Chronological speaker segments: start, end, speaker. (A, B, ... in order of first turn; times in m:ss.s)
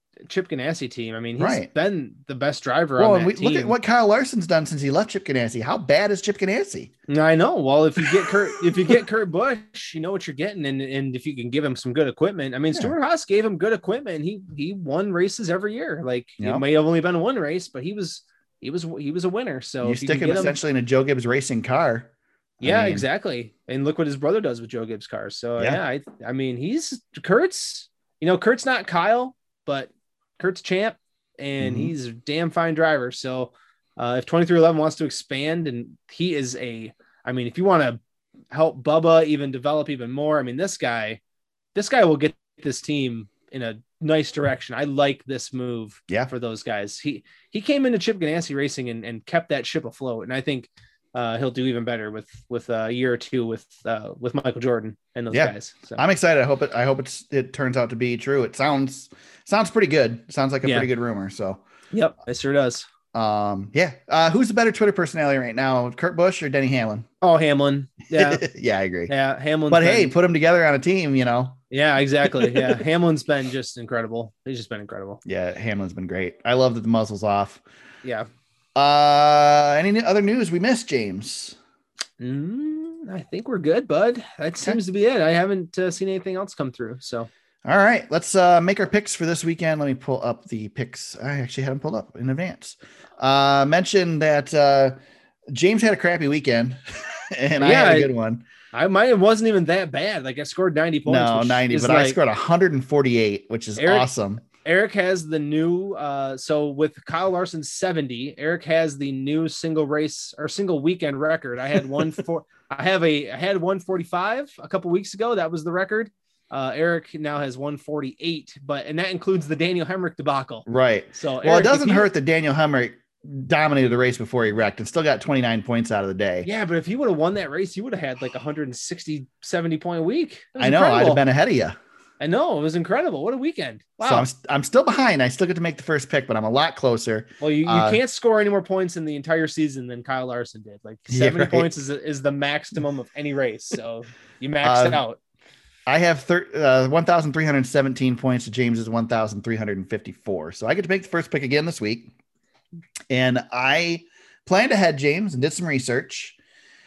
0:00.3-0:03.8 A
0:01.4-0:01.7 B
0:03.0-0:06.9 B
0:07.1-0:20.6 A
0:16.4-0:16.6 B
0:19.8-0:23.0 B
0:22.6-0:38.0 A
0:31.6-0:31.9 B
0:38.5-0:41.2 A
0:41.7-0:56.0 A
0:55.3-1:01.6 B
1:00.6-1:00.9 A
1:01.9-1:02.8 A
1:03.1-1:07.0 B
1:07.2-1:08.4 A
1:08.1-1:09.1 B
1:09.1-1:10.1 A
1:09.7-1:11.6 B
1:11.7-1:15.2 A
1:12.2-1:12.8 B
1:15.2-1:17.6 B
1:18.0-1:18.3 A
1:18.7-1:21.6 B
1:22.2-1:27.3 A
1:27.6-1:35.0 B
1:35.5-1:38.4 B
1:37.6-1:38.1 A
1:38.7-1:42.2 A
1:41.0-1:44.4 B
1:43.8-2:02.1 A
2:00.7-2:06.5 B
2:06.4-2:11.2 A
2:10.6-2:11.8 B
2:12.2-2:14.3 A
2:14.0-2:18.0 B
2:17.4-2:25.2 A
2:21.1-2:21.7 B
2:24.6-2:25.0 B
2:25.9-2:32.1 B
2:33.1-2:36.4 B